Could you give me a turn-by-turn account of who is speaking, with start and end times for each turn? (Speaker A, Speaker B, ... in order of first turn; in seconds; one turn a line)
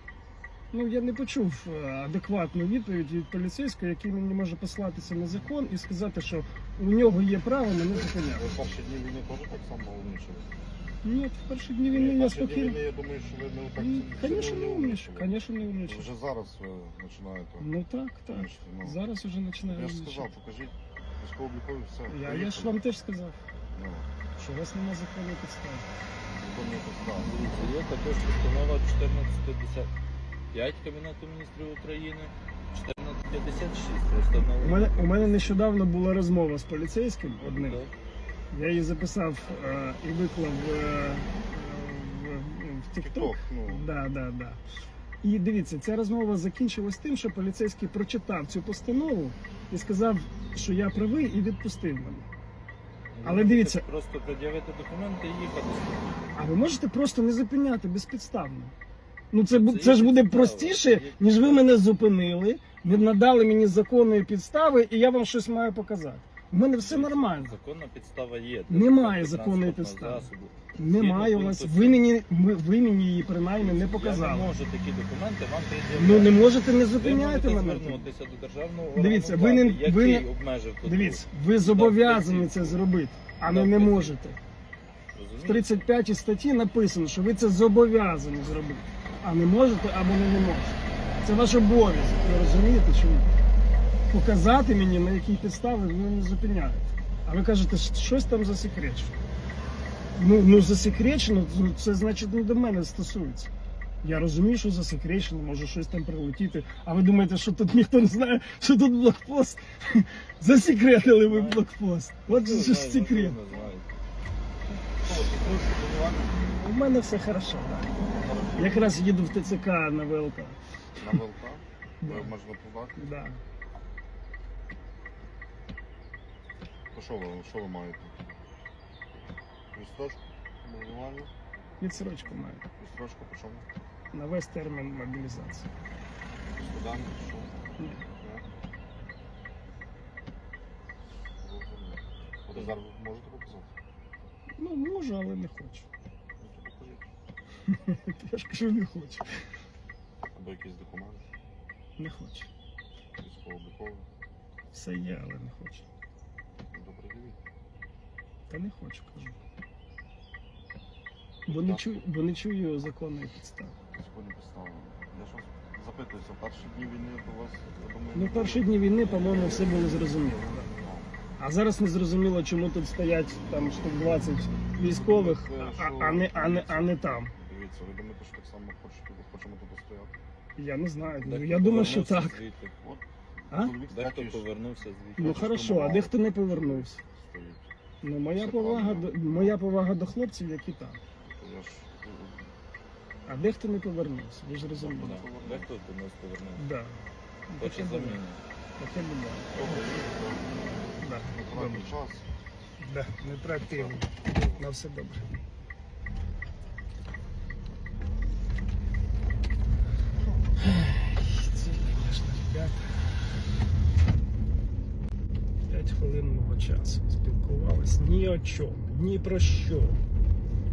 Speaker A: 0.7-8.5
Speaker B: 7.9-10.5
Speaker A: 11.0-12.8
Speaker B: 11.9-15.3
Speaker A: 13.8-16.1
Speaker B: 15.8-17.7
Speaker A: 17.6-20.3
Speaker B: 18.3-19.0
Speaker B: 19.6-22.8
Speaker A: 22.1-23.4
Speaker B: 23.7-24.1
Speaker A: 24.4-25.9
Speaker B: 26.4-27.4
Speaker C: 27.2-29.9
Speaker C: 30.5-35.7
Speaker A: 34.5-37.8
Speaker C: 37.4-37.9
Speaker A: 38.5-44.6
Speaker B: 42.9-43.9
Speaker A: 45.2-52.3
Speaker C: 53.1-56.4
Speaker A: 53.2-53.9
Speaker A: 56.3-58.7
Speaker A: 59.3-67.6
Speaker C: 59.5-61.8
Speaker C: 66.7-72.0
Speaker A: 68.7-74.5
Speaker C: 73.5-82.8
Speaker A: 75.9-78.1
Speaker A: 78.9-80.3
Speaker A: 80.8-84.4
Speaker C: 83.4-84.2
Speaker C: 85.1-85.8
Speaker A: 85.4-93.3
Speaker A: 94.1-99.2
Speaker A: 100.2-103.5
Speaker A: 104.0-113.4
Speaker C: 110.9-111.7
Speaker C: 112.3-113.8
Speaker B: 114.7-116.3
Speaker A: 116.5-118.0
Speaker B: 118.1-119.1
Speaker A: 118.5-120.6
Speaker B: 121.0-123.0
Speaker A: 122.0-122.3
Speaker A: 123.0-123.4
Speaker B: 126.9-128.3
Speaker B: 129.7-131.3
Speaker A: 131.8-132.6
Speaker B: 132.8-133.7
Speaker A: 134.1-135.7
Speaker B: 136.5-137.6
Speaker A: 137.8-138.0
Speaker B: 138.2-138.4
Speaker B: 141.4-143.7
Speaker A: 144.6-145.8
Speaker B: 146.4-147.0
Speaker A: 147.7-149.2
Speaker B: 150.3-151.2
Speaker A: 152.0-152.5
Speaker B: 153.2-154.1
Speaker A: 154.7-155.8
Speaker B: 156.7-157.4
Speaker A: 158.5-159.4
Speaker A: 161.4-163.8
Speaker B: 161.5-161.8
Speaker B: 163.9-171.1
Speaker A: 168.1-170.7
Speaker A: 171.4-177.3
Speaker B: 174.8-180.1
Speaker A: 180.6-182.4
Speaker C: 181.2-182.7
Speaker B: 182.8-184.4
Speaker A: 183.5-183.7
Speaker C: 183.9-185.5
Speaker A: 185.2-187.0
Speaker B: 185.2-187.7
Speaker A: 188.0-191.0
Speaker B: 188.3-189.6
Speaker B: 191.2-192.5
Speaker A: 193.3-195.2
Speaker B: 194.7-195.7
Speaker C: 194.8-196.6
Speaker A: 196.6-198.2
Speaker C: 197.6-198.4
Speaker A: 198.8-199.8
Speaker B: 199.5-200.6
Speaker A: 201.0-201.9
Speaker B: 201.3-202.2
Speaker A: 202.8-205.3
Speaker B: 203.7-204.6
Speaker A: 210.6-212.9
Speaker A: 215.7-220.0